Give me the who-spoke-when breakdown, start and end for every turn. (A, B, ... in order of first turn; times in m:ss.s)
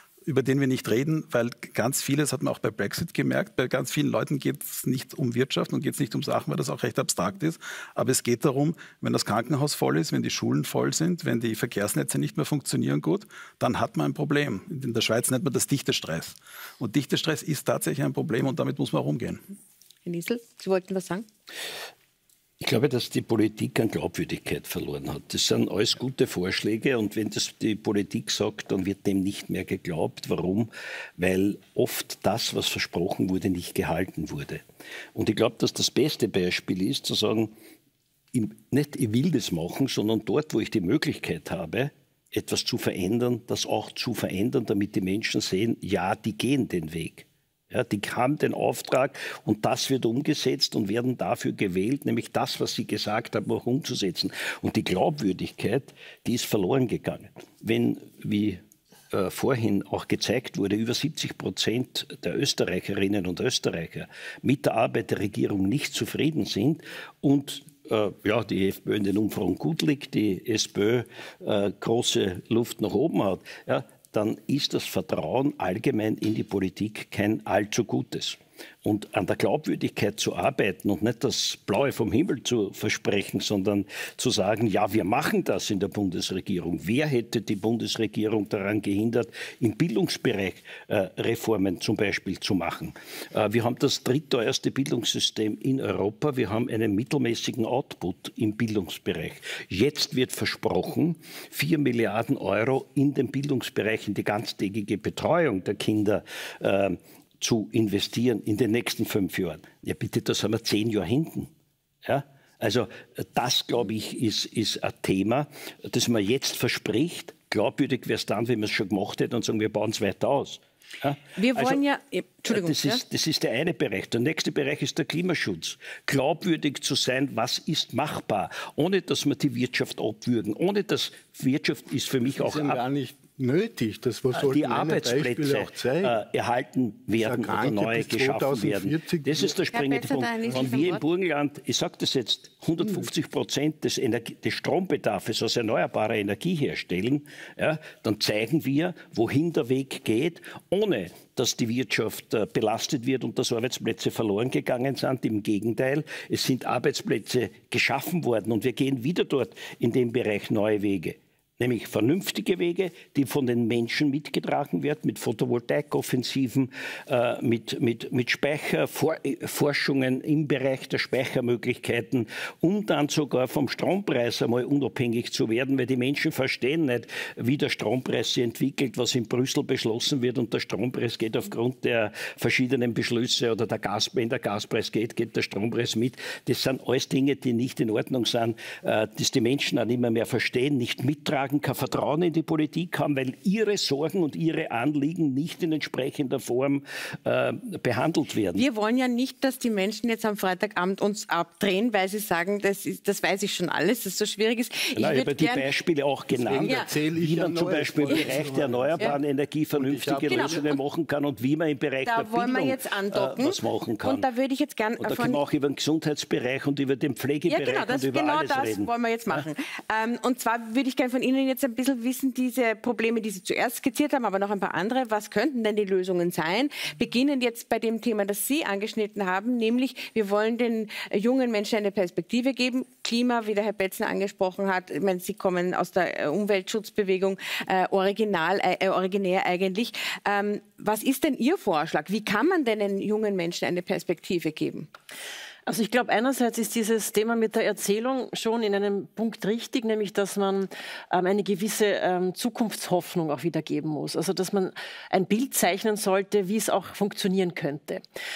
0:00.2-0:19.4 A
0:20.0-0:21.2 B
0:22.6-0:34.6 C
0:35.1-0:37.5 C
0:38.3-0:58.6 C
0:59.1-1:51.5 C
1:52.0-2:01.8 C
2:01.4-2:03.0 B
2:02.4-2:12.8 C
2:12.3-2:16.2 D
2:14.3-3:18.6 C
2:17.2-2:19.6 D
2:19.7-2:21.0 B
3:18.6-3:25.7 B
3:24.9-3:34.2 C
3:26.3-3:29.2 D
3:26.6-3:26.9 B
3:28.1-3:28.3 B
3:29.7-3:30.6 D
3:30.3-3:30.7 B
3:32.0-3:35.4 B
3:35.0-3:39.4 C
3:37.5-4:04.9 B
4:05.6-4:18.0 E